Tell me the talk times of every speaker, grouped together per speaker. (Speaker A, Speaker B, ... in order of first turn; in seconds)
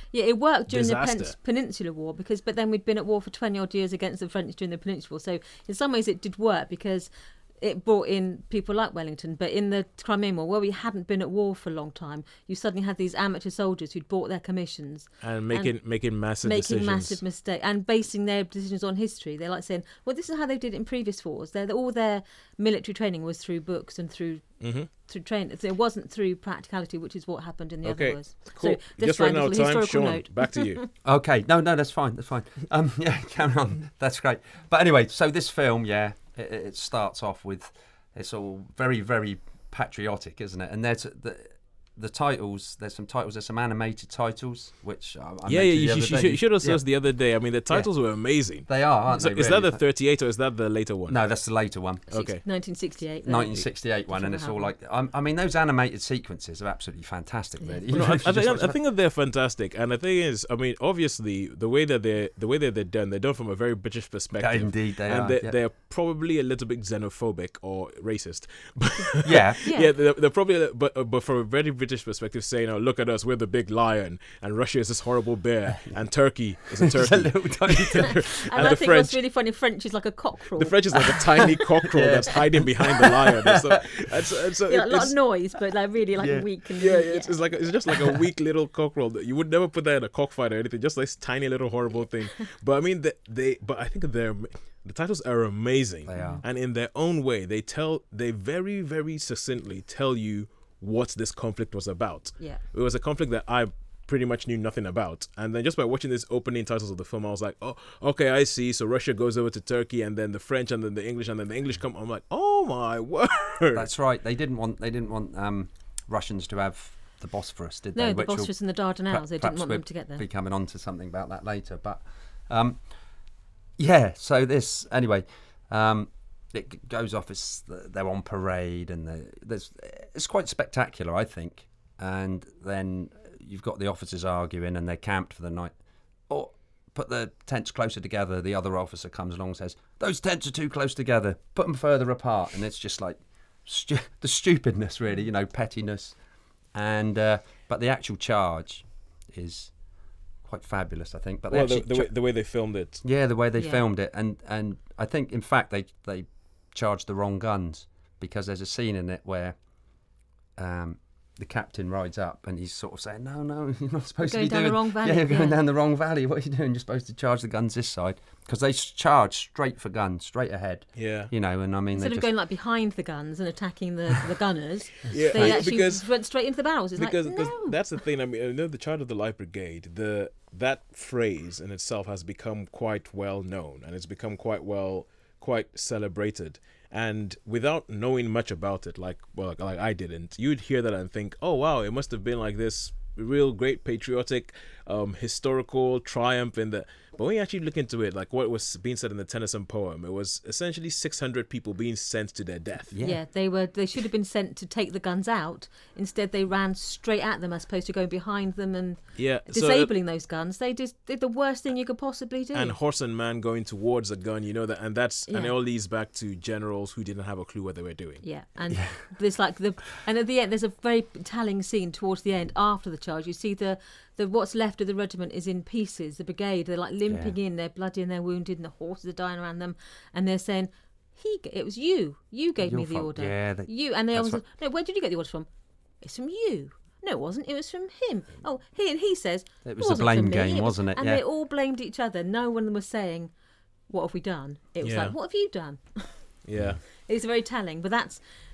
Speaker A: 0.1-30.9, 52.1-54.7, 57.6-58.2, 69.7-69.9, 78.5-81.2, 84.7-87.5, 96.2-96.4, 118.0-120.2, 153.6-153.8, 164.3-165.6, 171.9-177.8, 203.0-212.8, 215.3-215.5, 218.2-235.5, 236.0-243.3, 243.9-246.3, 247.0-248.2
Speaker B: 0.7-1.4, 15.2-17.2, 24.6-24.9, 27.8-30.8, 45.5-51.2, 52.1-52.4, 57.9-79.2, 80.6-85.1, 86.8-113.9, 151.5-153.0, 171.0-171.3, 175.1-176.1, 177.0-202.9, 209.2-209.9, 212.5-218.2, 244.8-245.1, 246.4-246.8
Speaker C: 31.0-46.8, 48.7-49.8, 51.1-52.1, 53.2-58.8, 64.4-65.6, 69.2-69.6, 76.8-78.7, 81.9-83.8, 86.2-86.5, 96.1-96.5, 113.8-122.9, 123.8-135.8, 136.3-146.2, 146.7-152.1, 153.0-159.6, 160.6-172.3, 175.1-175.7, 202.9-203.2, 218.7-219.1, 227.1-227.4, 232.6-234.4, 239.7-241.2, 246.6-246.8